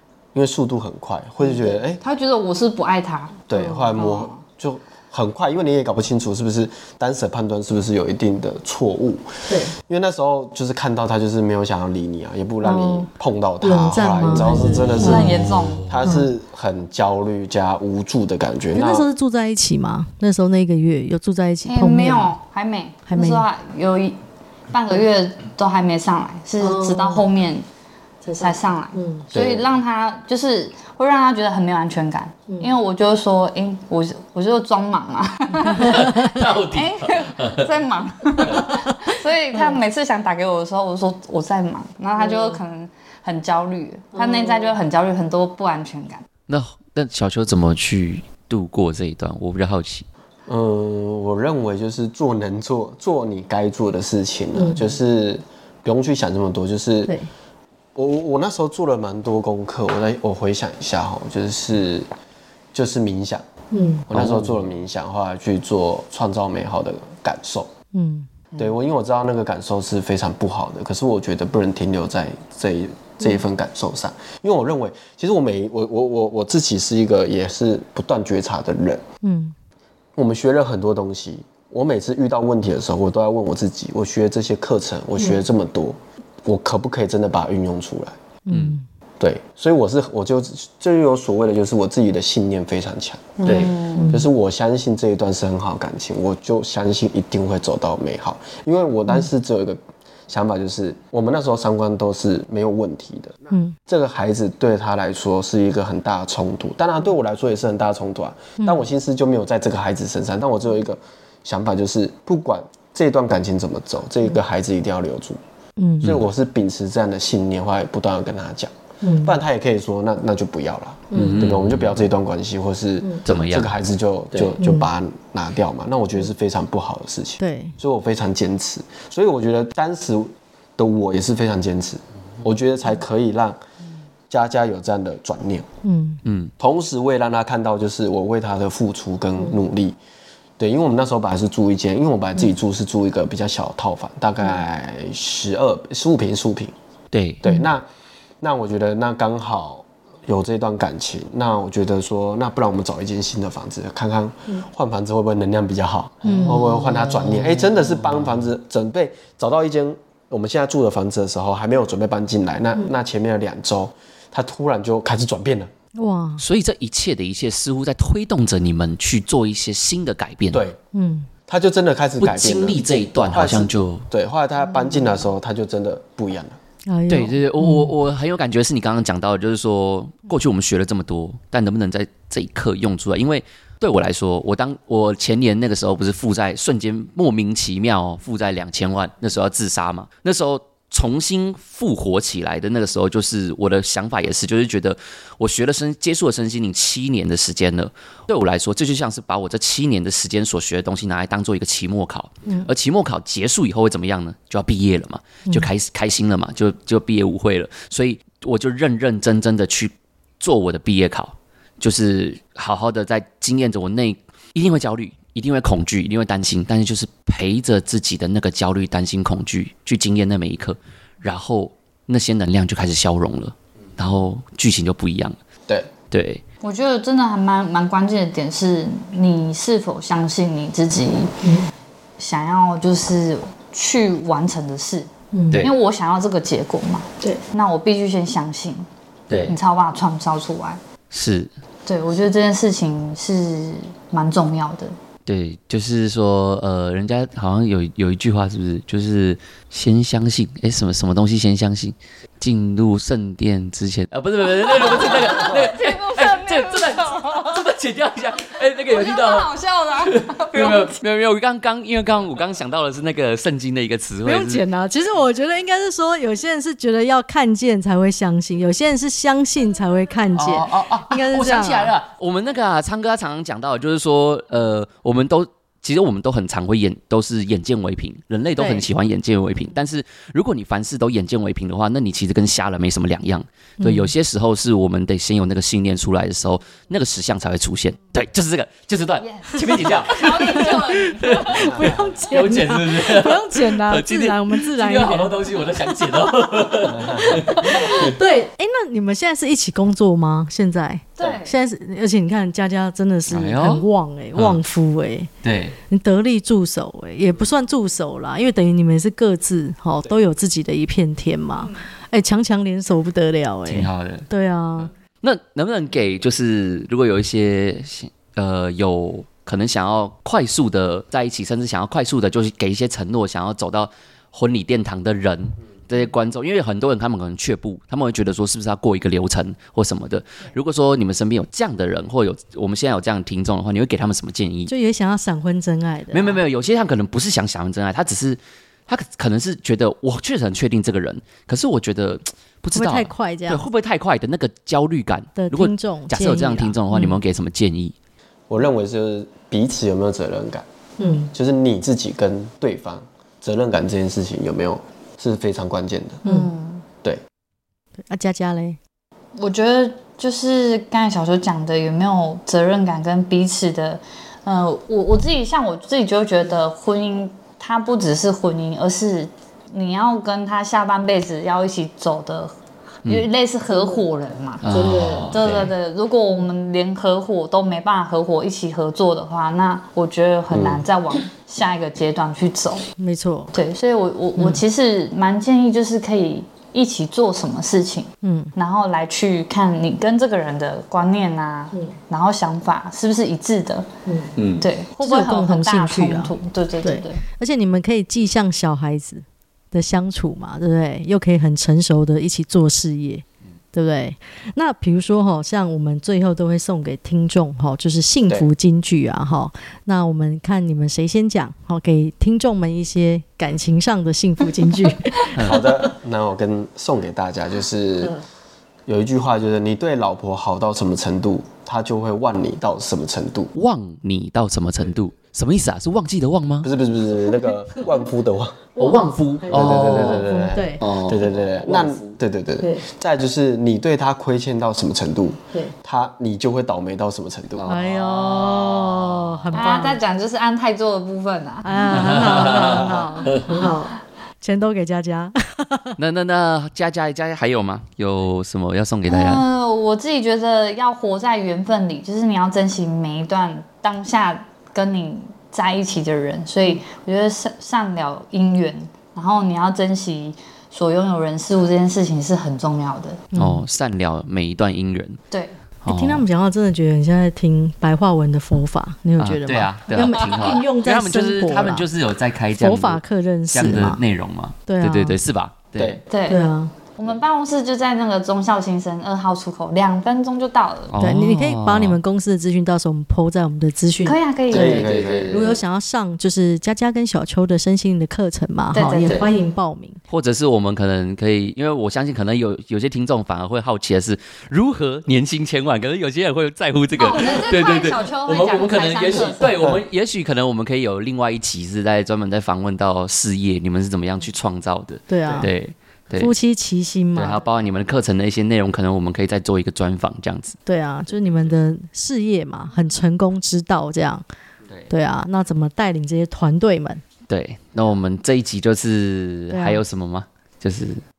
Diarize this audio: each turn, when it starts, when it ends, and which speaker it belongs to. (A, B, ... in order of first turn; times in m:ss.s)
0:00.3-0:02.0 A
0:02.0-0:04.4 B
0:03.5-0:19.1 A
0:09.5-0:09.7 C
0:12.6-0:13.1 C
0:13.6-0:15.4 C
0:14.6-0:16.0 D
0:15.0-0:15.9 B
0:18.7-0:22.3 C
0:21.6-0:24.2 B
0:23.1-0:23.4 C
0:24.7-0:27.6 B
0:26.6-0:27.2 C
0:28.2-0:29.3 C
0:28.3-0:46.2 B
0:29.3-0:29.7 A
0:35.7-0:37.7 D
0:35.8-0:36.2 C
0:38.4-0:38.8 D
0:46.5-0:50.1 D
0:50.5-0:57.2 A
0:54.5-0:54.8 C
0:57.9-1:02.1 A
1:02.7-1:03.4 A
1:03.7-1:04.1 C
1:04.1-1:07.7 A
1:04.1-1:04.6 D
1:07.9-1:08.3 C
1:08.6-1:19.0 A
1:19.2-1:19.5 C
1:20.2-1:28.2 A
1:28.5-1:28.8 C
1:29.2-1:33.4 A
1:33.4-1:34.1 B
1:33.4-1:33.8 D
1:34.0-1:34.3 C
1:34.1-1:55.4 A
1:43.5-1:43.8 C
1:48.6-1:48.9 C
1:55.8-1:56.1 C
1:56.0-2:13.6 A
1:59.0-1:59.4 C
2:01.1-2:01.4 C
2:01.1-2:02.0 D
2:03.2-2:03.7 D
2:04.6-2:04.9 C
2:07.4-2:07.8 C
2:14.3-2:15.7 A
2:15.8-2:16.2 C
2:16.2-2:16.5 D
2:16.6-2:20.0 A
2:20.6-2:26.7 A
2:27.1-2:27.4 D
2:27.4-2:27.8 A
2:28.4-2:45.7 A
2:36.2-2:37.4 C
2:36.9-2:38.2 D
2:45.9-2:46.4 C
2:46.4-2:50.6 D
2:50.5-2:50.8 A
2:50.9-2:51.3 C
2:51.5-2:56.6 A
2:52.2-2:54.1 D
2:56.9-2:57.9 C
2:57.1-3:45.4 D
3:46.1-3:46.4 D
3:46.6-3:51.4 B
3:51.4-3:51.7 C
3:52.2-3:55.1 B
3:55.3-3:55.6 C
3:55.6-3:58.9 B
3:59.3-3:59.5 D
3:59.4-4:00.8 B
4:01.1-4:01.5 D
4:01.8-4:05.0 B
4:05.2-4:24.6 D
4:14.6-4:17.6 B
4:18.8-4:21.0 B
4:24.2-4:31.9 C
4:30.3-4:58.1 D
4:38.6-4:38.8 C
4:43.8-4:44.1 C
4:49.2-4:52.4 B
4:51.4-4:55.3 C
4:51.6-4:52.1 A
4:57.0-4:57.3 A
4:57.2-5:05.3 C
4:57.8-4:58.0 B
5:01.2-5:01.5 B
5:03.3-5:03.8 D
5:05.4-5:05.8 D
5:05.8-5:14.9 C
5:13.7-5:14.3 D
5:15.2-5:34.7 D
5:34.7-5:36.4 C
5:36.1-5:47.9 D
5:42.7-5:43.6 C
5:45.4-5:47.2 C
5:48.5-5:50.6 A
5:51.0-5:51.3 C
5:51.3-5:56.2 A
5:56.2-5:56.8 B
5:58.1-5:58.8 C
5:59.4-6:14.6 B
6:14.6-6:15.7 D
6:14.7-6:15.3 C
6:15.3-6:22.8 B
6:20.5-6:20.8 D
6:23.0-6:23.5 C
6:23.5-6:33.9 B
6:28.2-6:28.5 C
6:34.0-6:34.3 C
6:34.4-6:34.6 D
6:34.6-6:37.2 B
6:35.0-6:55.9 C
6:55.4-6:55.6 D
6:55.4-6:58.2 A
6:58.8-7:03.5 A
7:03.5-7:06.7 D
7:06.6-7:08.7 A
7:08.8-7:10.8 C
7:08.8-7:10.3 D
7:09.5-7:17.7 A
7:10.8-7:12.1 D
7:17.5-7:19.8 D
7:17.6-7:20.0 C
7:19.5-7:23.0 B
7:21.6-7:25.9 C
7:21.9-7:23.4 D
7:26.0-7:29.4 D
7:29.1-7:43.3 B
7:43.3-7:43.6 C
7:43.3-7:45.2 D
7:45.3-7:45.6 B
7:45.8-7:46.2 D
7:45.8-7:51.9 C
7:49.2-7:56.0 D
7:50.1-7:50.5 B
7:52.5-7:54.0 C
7:54.7-7:55.2 C
7:56.1-8:00.9 B
7:56.3-7:56.7 C
8:00.9-8:02.0 D
8:01.0-8:04.2 C
8:04.0-8:04.9 B
8:04.5-8:05.5 A
8:04.5-8:05.6 D
8:05.3-8:10.0 C
8:08.7-8:09.3 B
8:10.1-8:26.3 D
8:17.0-8:19.6 B
8:25.1-8:25.5 C
8:26.2-8:27.4 C
8:27.1-8:30.6 D
8:30.6-8:34.2 C
8:34.9-8:37.0 C
8:37.3-8:41.0 D
8:39.5-8:39.8 C